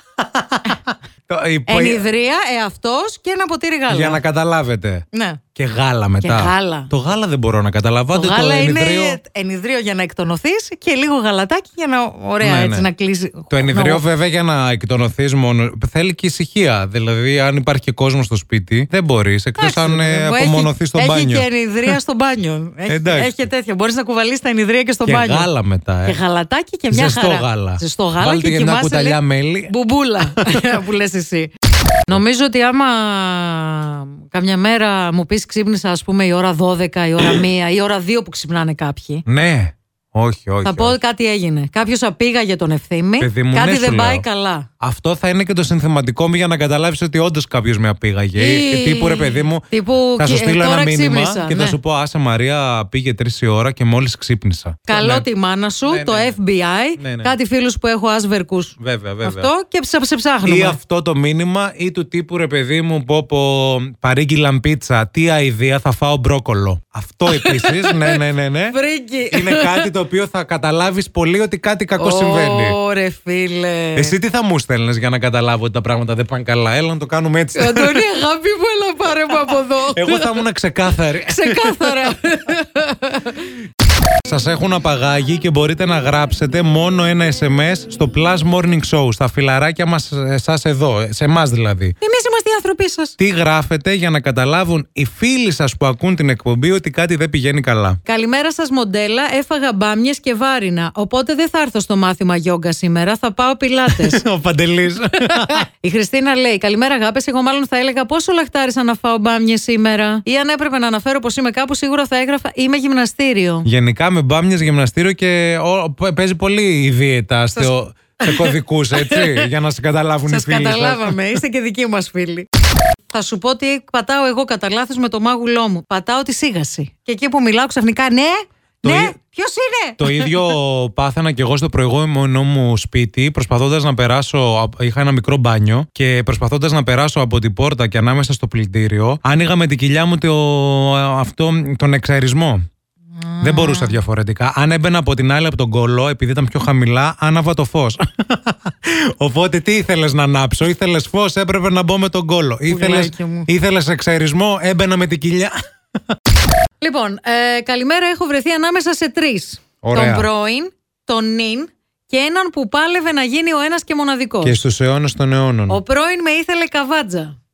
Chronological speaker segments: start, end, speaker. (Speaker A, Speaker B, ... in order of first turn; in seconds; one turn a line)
Speaker A: 0.2-2.0
Speaker B: 1.7-4.2
Speaker A: 3.9-5.0
Speaker B: 5.1-5.4
Speaker A: 5.6-9.2
Speaker B: 6.2-6.9
Speaker B: 8.1-14.1
Speaker A: 12.4-12.9
Speaker A: 13.5-22.0
Speaker B: 19.6-25.5
Speaker A: 22.9-23.4
Speaker A: 25.1-26.2
Speaker B: 26.1-31.5
Speaker A: 26.9-30.6
Speaker B: 32.1-39.2
Speaker A: 39.3-41.0
Speaker B: 40.6-44.7
Speaker A: 43.2-44.2
Speaker A: 44.8-49.7
Speaker B: 48.4-51.8
Speaker A: 50.2-55.3
Speaker B: 54.9-60.8
Speaker A: 55.9-56.4
Speaker A: 57.0-57.4
Speaker A: 58.8-59.5
Speaker A: 60.5-68.8
Speaker B: 67.3-69.9
Speaker A: 69.3-72.8
Speaker B: 72.0-74.2
Speaker A: 74.0-78.0
Speaker B: 77.5-80.4
Speaker A: 79.9-82.2
Speaker B: 81.3-83.5
Speaker A: 84.2-92.0
Speaker B: 92.0-93.1
Speaker A: 93.2-98.0
Speaker B: 98.0-104.2
Speaker A: 103.9-105.7
Speaker B: 105.2-113.7
Speaker A: 113.7-121.4
Speaker B: 117.6-119.5
Speaker B: 120.3-122.5
Speaker B: 123.1-130.5
Speaker A: 128.8-129.2
Speaker A: 130.0-142.6
Speaker B: 143.2-144.0
Speaker A: 143.4-155.6
Speaker B: 152.7-153.5
Speaker B: 156.8-164.7
Speaker A: 159.8-160.3
Speaker A: 164.4-165.8
Speaker B: 165.7-167.4